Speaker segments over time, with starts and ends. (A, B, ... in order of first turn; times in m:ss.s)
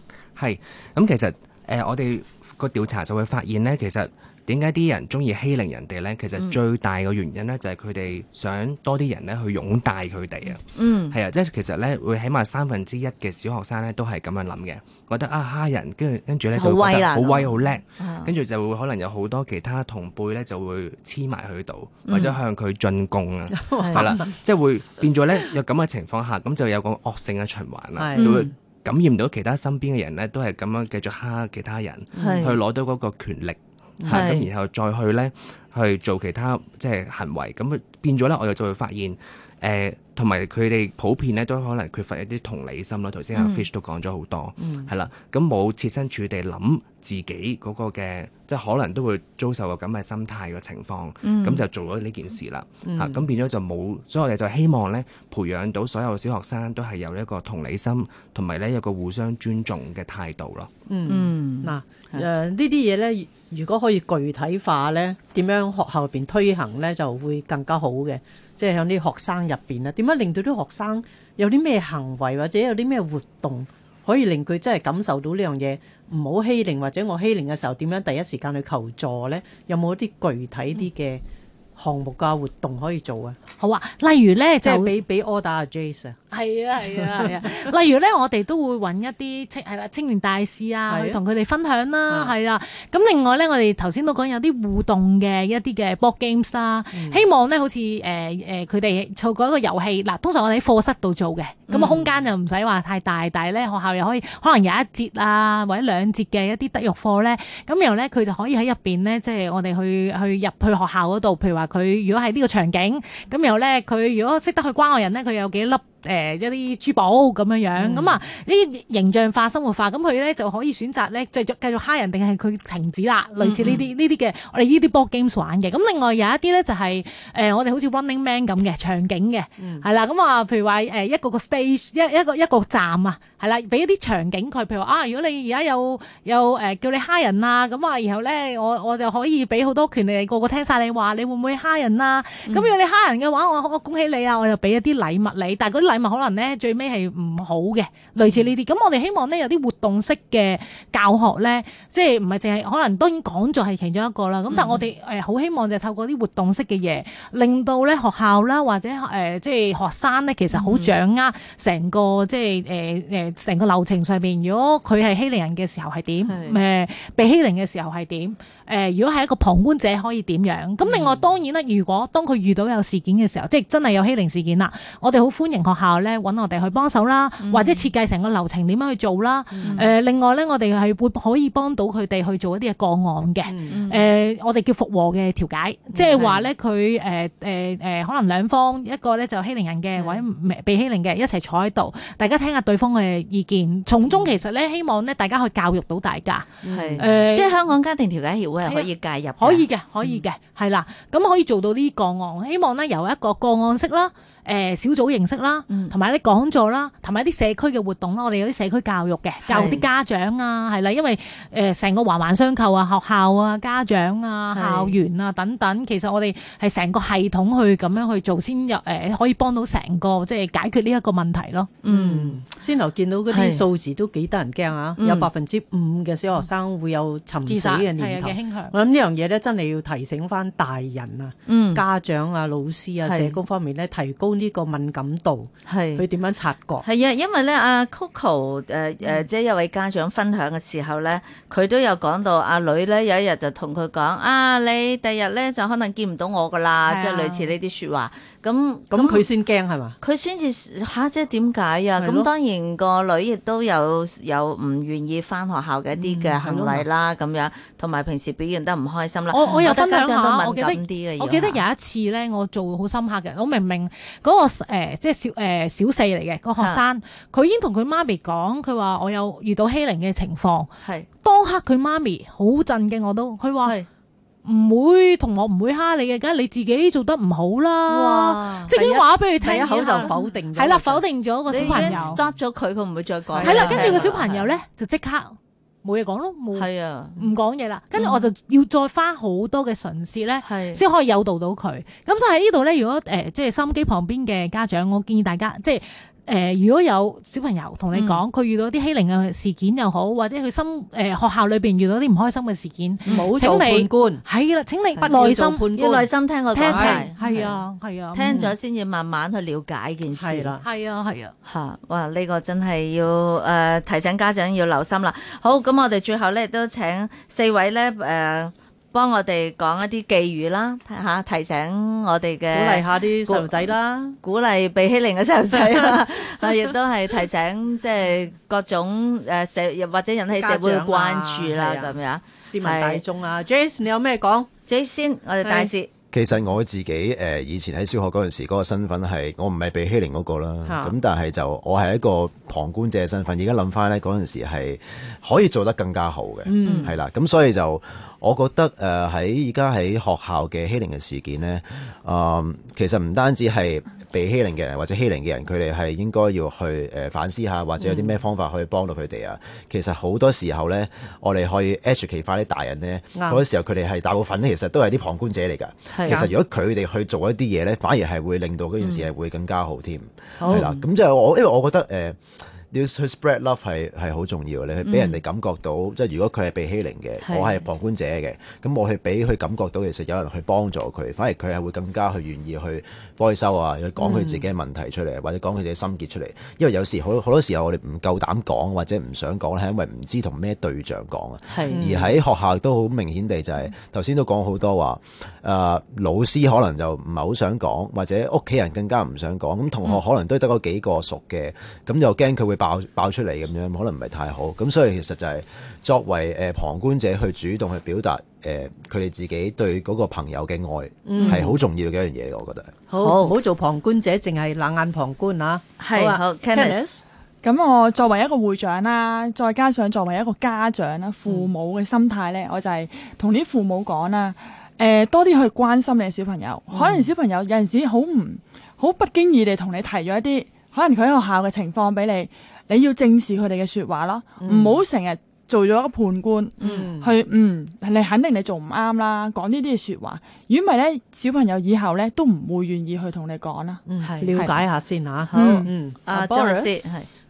0:00.4-1:00.7 A
0:10.5-0:11.2 B
0:16.5-0:18.3 B
0:22.0-0:22.4 B
0:23.5-0:24.2 C
0:23.8-0:24.1 B
0:28.0-0:28.5 C
0:28.1-0:28.5 B
0:32.2-0:32.6 C
0:32.2-0:32.6 B
0:34.0-0:34.3 C
0:34.1-0:34.5 B
0:43.3-0:43.7 B
0:44.6-0:44.9 C
0:51.2-0:51.6 B
0:52.8-0:53.2 C
1:00.9-1:21.2 C
1:01.1-1:02.3 B
1:21.8-1:23.4 C
1:23.6-1:25.0 D
1:24.6-1:26.2 C
1:26.3-3:17.6 D
1:26.8-1:27.6 C
1:30.9-1:31.2 C
1:32.1-1:32.3 C
1:36.9-1:37.2 C
1:41.7-1:42.1 B
1:57.8-1:58.2 B
2:03.4-2:03.9 B
2:09.6-2:09.8 C
2:22.4-2:22.7 B
2:28.2-2:28.5 B
2:34.5-2:34.8 B
2:40.5-2:40.9 B
2:46.3-2:46.6 B
2:50.8-2:51.2 B
2:57.4-2:57.9 B
2:59.5-2:59.9 C
2:59.6-2:59.9 B
3:03.4-3:03.8 C
3:03.7-3:04.1 B
3:05.9-3:06.3 C
3:10.0-3:10.2 B
3:16.6-3:17.1 C
3:16.7-3:20.2 B
3:18.6-3:41.7 D
3:25.7-3:25.9 B
3:29.5-3:29.8 B
3:34.5-3:35.0 B
3:41.8-3:42.4 B
3:41.8-3:56.8 C
3:43.3-3:43.6 B
3:45.0-3:45.3 B
3:47.4-3:48.7 D
3:51.5-3:51.8 B
3:53.0-3:53.4 B
3:55.7-3:56.0 B
3:56.8-4:09.3 B
4:06.8-4:07.5 D
4:08.9-4:10.0 C
4:10.0-4:21.6 B
4:12.0-4:12.3 C
4:15.9-4:16.9 C
4:19.3-4:30.7 D
4:26.6-4:26.8 B
4:31.2-4:33.8 D
4:34.4-4:42.2 D
4:37.9-4:38.7 B
4:38.7-4:42.3 C
4:39.8-4:40.1 B
4:41.5-4:44.5 B
4:43.3-4:44.0 C
4:43.4-5:05.6 D
4:46.5-4:47.2 B
4:48.0-4:48.3 B
4:50.4-4:50.8 B
4:57.9-4:58.2 B
5:03.1-5:04.2 C
5:05.0-5:07.5 C
5:05.7-5:07.5 B
5:06.5-5:08.4 D
5:08.1-5:10.5 B
5:08.2-5:08.5 C
5:10.1-5:10.6 C
5:10.6-5:11.3 D
5:11.4-5:33.0 B
5:22.5-5:24.2 C
5:25.5-5:26.0 C
5:30.3-5:34.5 C
5:34.7-5:35.9 B
5:35.4-5:35.7 C
5:36.1-6:52.7 E
5:40.7-5:40.9 C
5:46.4-5:46.9 C
5:46.6-5:46.9 B
6:05.9-6:06.2 B
6:10.4-6:10.7 C
6:10.5-6:10.8 B
6:14.8-6:15.2 B
6:17.2-6:17.6 B
6:24.0-6:24.3 B
6:24.1-6:24.4 C
6:31.5-6:31.8 B
6:31.7-6:32.2 C
6:51.0-6:51.6 C
6:51.1-6:51.4 B
6:52.9-6:57.0 C
6:53.0-6:53.4 B
6:55.8-6:56.8 B
6:57.4-7:23.8 F
7:06.7-7:07.1 C
7:14.4-7:14.8 C
7:16.6-7:16.9 B
7:16.6-7:17.1 C
7:23.9-7:26.6 C
7:24.0-7:24.5 B
7:25.3-7:27.1 B
7:25.4-7:25.7 F